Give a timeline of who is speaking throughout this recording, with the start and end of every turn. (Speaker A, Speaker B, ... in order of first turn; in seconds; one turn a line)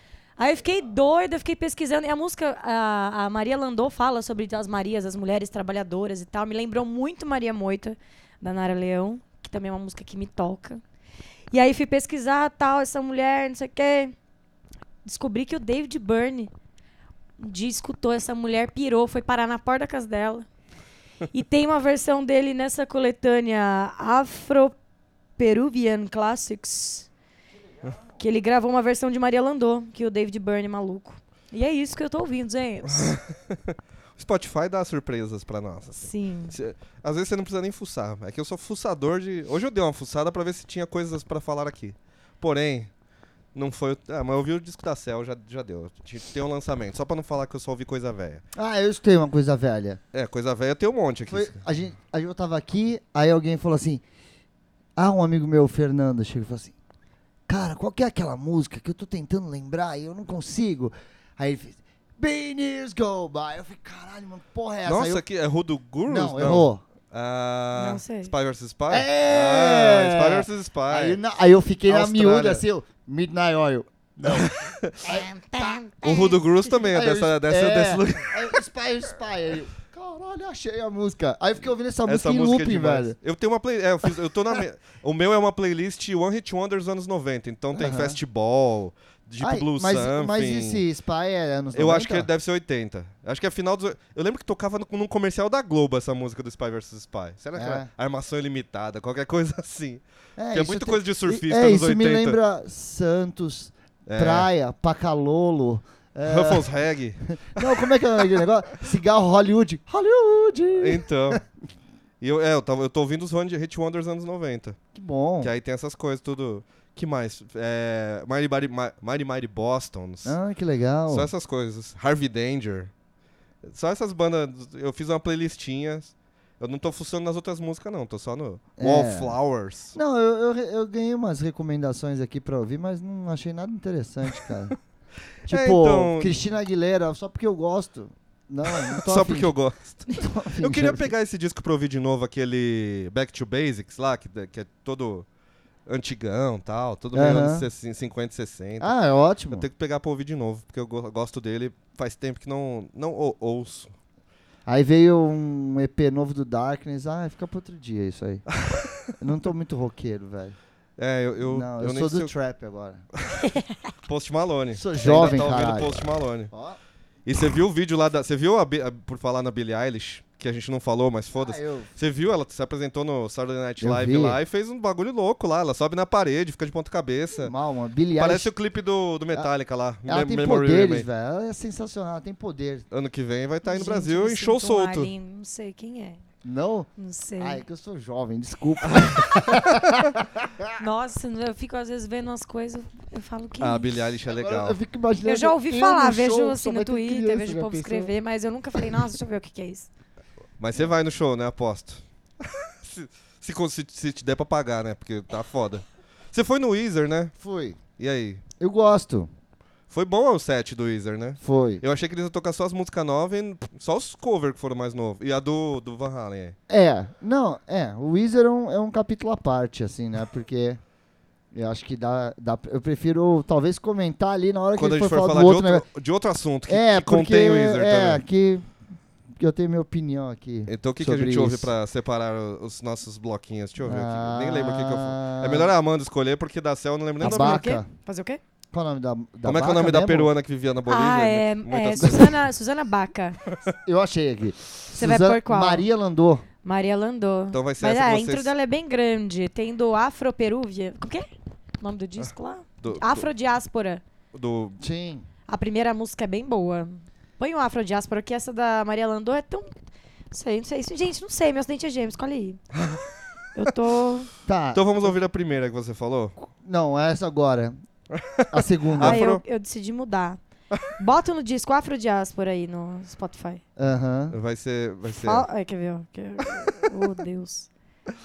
Speaker A: 0.4-10.8
Speaker A: 11.5-14.1
Speaker A: 15.0-16.5
Speaker A: 17.4-20.5
Speaker A: 21.3-24.8
Speaker A: 25.4-27.1
Speaker B: 27.8-28.1
Speaker A: 28.2-33.1
Speaker C: 32.9-42.9
Speaker A: 36.0-36.6
Speaker C: 43.5-48.4
Speaker B: 48.6-50.0
Speaker C: 50.1-51.6
Speaker B: 51.3-54.0
Speaker B: 55.0-56.8
Speaker B: 57.5-65.2
Speaker C: 64.8-71.2
Speaker B: 66.1-66.8
Speaker A: 67.8-68.3
Speaker B: 68.9-83.2
Speaker C: 71.9-72.6
Speaker C: 74.3-75.2
Speaker C: 76.0-78.6
Speaker C: 82.1-90.8
Speaker B: 87.7-88.2
Speaker B: 89.4-92.3
Speaker C: 91.7-102.4
Speaker B: 97.5-97.9
Speaker B: 100.4-106.7
Speaker C: 104.1-104.5
Speaker C: 106.2-108.3
Speaker B: 107.3-111.4
Speaker C: 110.8-111.4
Speaker C: 112.2-114.8
Speaker B: 115.0-115.5
Speaker C: 115.4-120.4
Speaker B: 120.2-121.3
Speaker C: 121.1-122.9
Speaker C: 123.6-130.0
Speaker B: 128.8-129.4
Speaker B: 129.9-134.8
Speaker B: 135.5-139.5
Speaker C: 135.5-136.4
Speaker C: 138.7-145.3
Speaker B: 140.2-141.1
Speaker C: 145.9-148.9
Speaker B: 147.1-147.7
Speaker B: 148.8-149.7
Speaker C: 149.5-153.9
Speaker B: 154.7-158.4
Speaker C: 158.6-159.1
Speaker B: 159.2-160.6
Speaker C: 161.0-162.3
Speaker B: 161.4-163.0
Speaker C: 163.2-163.5
Speaker A: 163.4-163.7
Speaker C: 164.1-166.5
Speaker B: 164.8-166.8
Speaker C: 167.3-177.5
Speaker B: 171.3-171.9
Speaker B: 173.8-174.4
Speaker B: 177.4-178.5
Speaker C: 178.2-181.1
Speaker B: 180.1-182.8
Speaker C: 182.9-185.1
Speaker A: 183.6-186.2
Speaker B: 186.4-190.8
Speaker A: 187.0-187.6
Speaker C: 189.0-189.3
Speaker A: 190.8-194.0
Speaker C: 193.6-194.8
Speaker B: 194.3-198.1
Speaker A: 195.2-199.9
Speaker C: 200.6-207.3
Speaker B: 207.4-207.8
Speaker C: 208.0-208.4
Speaker B: 208.6-209.3
Speaker C: 209.9-216.6
Speaker B: 211.4-211.8
Speaker B: 216.7-220.8
Speaker B: 221.5-225.8
Speaker C: 224.8-228.2
Speaker B: 226.7-228.7
Speaker B: 229.4-231.7
Speaker C: 230.7-237.7
Speaker B: 233.8-235.7
Speaker B: 237.2-237.9
Speaker A: 237.2-238.4
Speaker B: 238.7-240.3
Speaker C: 239.4-242.4
Speaker A: 240.9-243.4
Speaker B: 243.8-246.4
Speaker A: 245.0-245.8
Speaker A: 246.6-251.3
Speaker C: 247.5-248.5
Speaker A: 251.8-254.0
Speaker C: 252.8-253.3
Speaker C: 254.3-254.8
Speaker B: 254.8-255.3
Speaker A: 255.5-259.7
Speaker A: 260.3-262.6
Speaker C: 262.7-263.0
Speaker A: 263.6-264.3
Speaker B: 264.5-265.1
Speaker C: 264.7-266.4
Speaker B: 266.6-267.8
Speaker C: 268.1-269.4
Speaker B: 268.5-269.2
Speaker A: 269.0-270.4
Speaker A: 270.9-273.6
Speaker B: 273.8-274.4
Speaker C: 274.3-275.5
Speaker A: 275.1-277.7